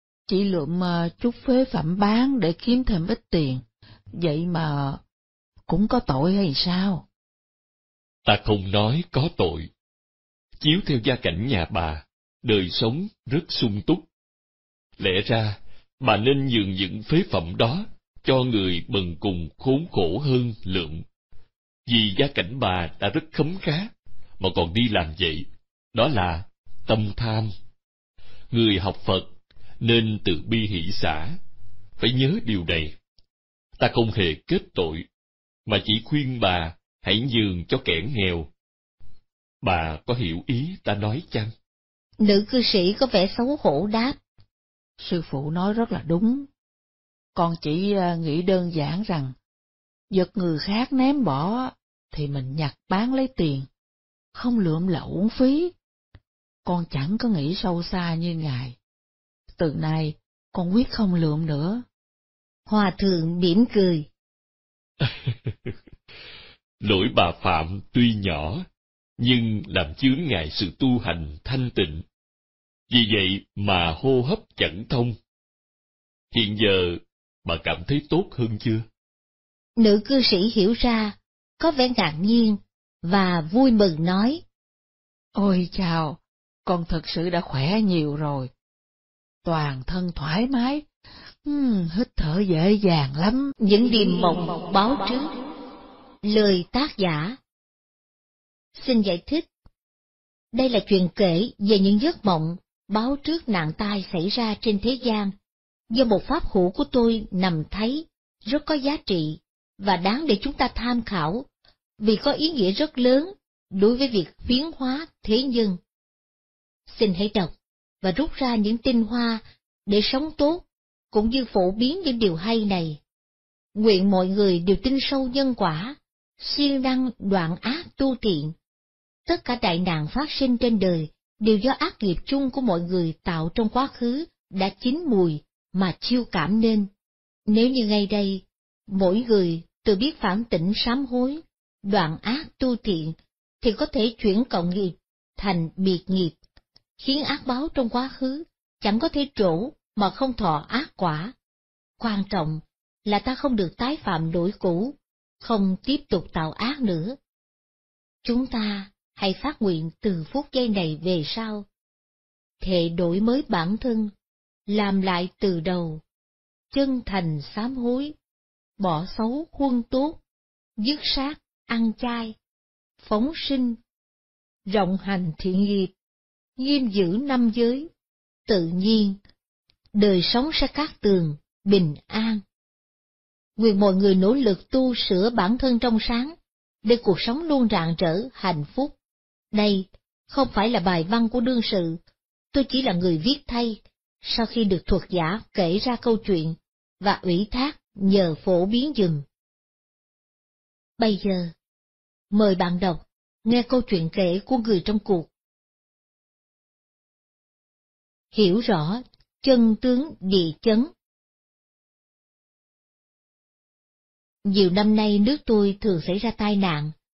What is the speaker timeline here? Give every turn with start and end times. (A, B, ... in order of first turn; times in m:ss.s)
0:00.3-0:03.6 A
0:04.2-0:05.0 A
0:05.7-0:07.0 A
0:08.2-0:09.7 B
0:10.6-0:14.1 B
0:15.0-0:21.0 B
0:21.9-0:27.5 B
0:28.5-0:31.4 B
0:32.0-0:33.0 B
0:33.8-0:35.0 B
0:35.7-0:38.5 B
0:39.6-0:41.5 B
0:42.2-0:44.2 C
0:45.0-0:46.5 A
0:47.4-0:49.4 A
0:50.1-0:53.7 A
0:54.4-0:55.7 A
0:56.7-0:58.8 A
0:59.6-1:01.8 A
1:02.7-1:04.1 C
1:05.0-1:05.3 B
1:06.8-1:08.6 B
1:09.2-1:12.0 B
1:12.9-1:15.2 B
1:16.3-1:18.9 B
1:19.8-1:24.4 C
1:25.4-1:28.5 A
1:29.4-1:30.8 A
1:31.4-1:33.5 A
1:33.6-1:35.3 C
1:36.2-1:37.4 C
1:38.8-1:39.5 C
1:40.5-1:45.3 C
1:45.9-1:51.4 C
1:52.0-1:55.8 C
1:56.9-2:03.0 C
2:03.8-2:08.5 C
2:09.3-2:16.9 C
2:17.5-2:26.4 C
2:27.0-2:31.3 C
2:32.0-2:37.2 C
2:38.2-2:41.6 C
2:42.6-2:44.1 C
2:44.7-2:46.0 C
2:46.7-2:48.1 C
2:48.8-2:50.2 C
2:50.8-2:52.4 C
2:53.0-2:53.8 C
2:54.7-2:55.9 C
2:56.6-2:57.9 C
2:58.5-2:59.2 C
3:00.0-3:02.4 C
3:03.6-3:09.0 C
3:09.5-3:12.0 C
3:12.5-3:19.2 C
3:21.0-3:21.5 C
3:22.3-3:25.3 C
3:28.3-3:30.9 C
3:34.4-3:36.9 C